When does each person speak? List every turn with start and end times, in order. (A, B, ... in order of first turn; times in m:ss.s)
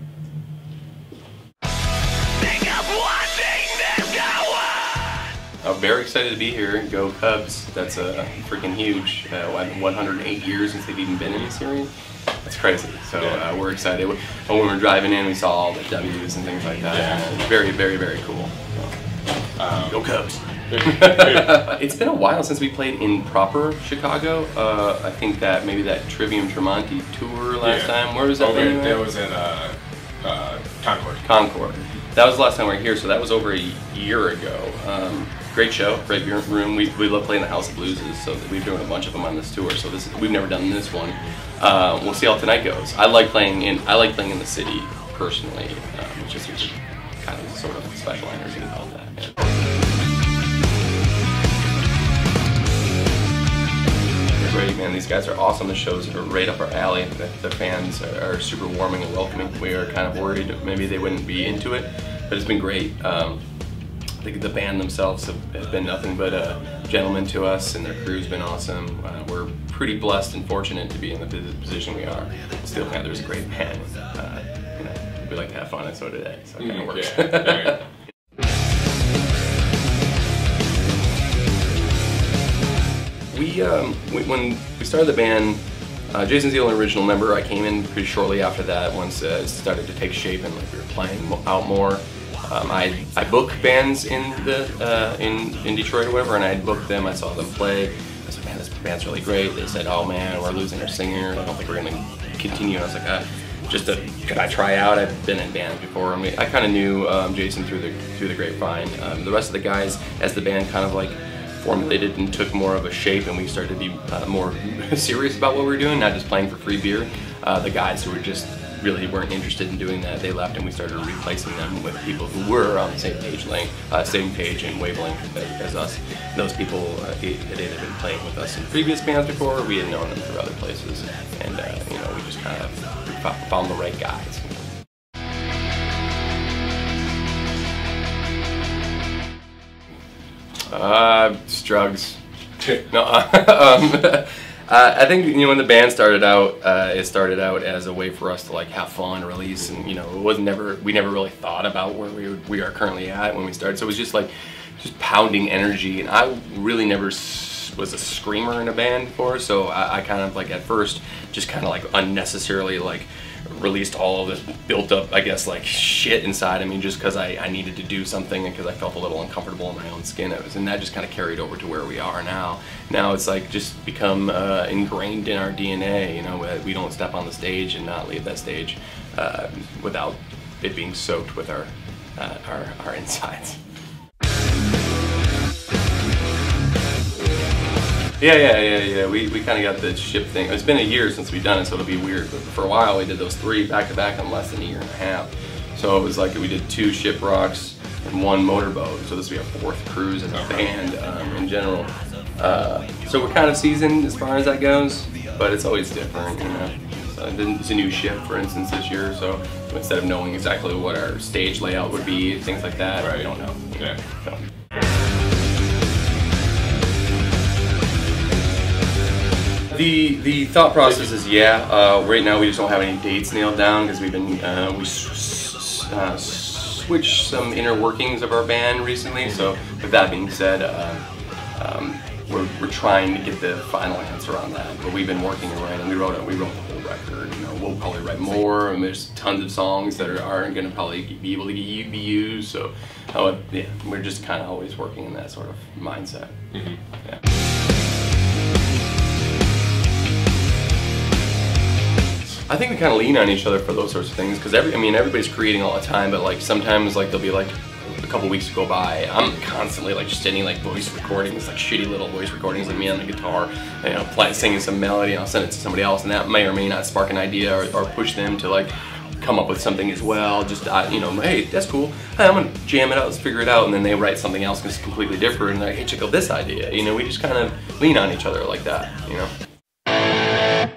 0:05.6-0:11.9 A
0:12.4-0:18.9 A
0:16.9-0:17.2 B
0:19.6-0:20.0 B
0:19.8-0:29.0 A
0:20.7-0:21.6 B
0:27.6-0:31.2 B
0:31.2-0:49.7 A
0:54.4-1:03.4 A
1:04.2-1:17.8 A
1:16.6-1:17.8 B
1:23.3-1:25.6 A
1:26.1-2:14.7 A
2:20.7-2:22.2 A
2:22.8-3:03.6 A
3:08.2-3:34.4 A
3:33.0-3:34.0 B
3:39.7-3:51.0 A
3:51.6-4:06.4 A
4:06.5-4:06.8 B
4:12.5-4:39.3 A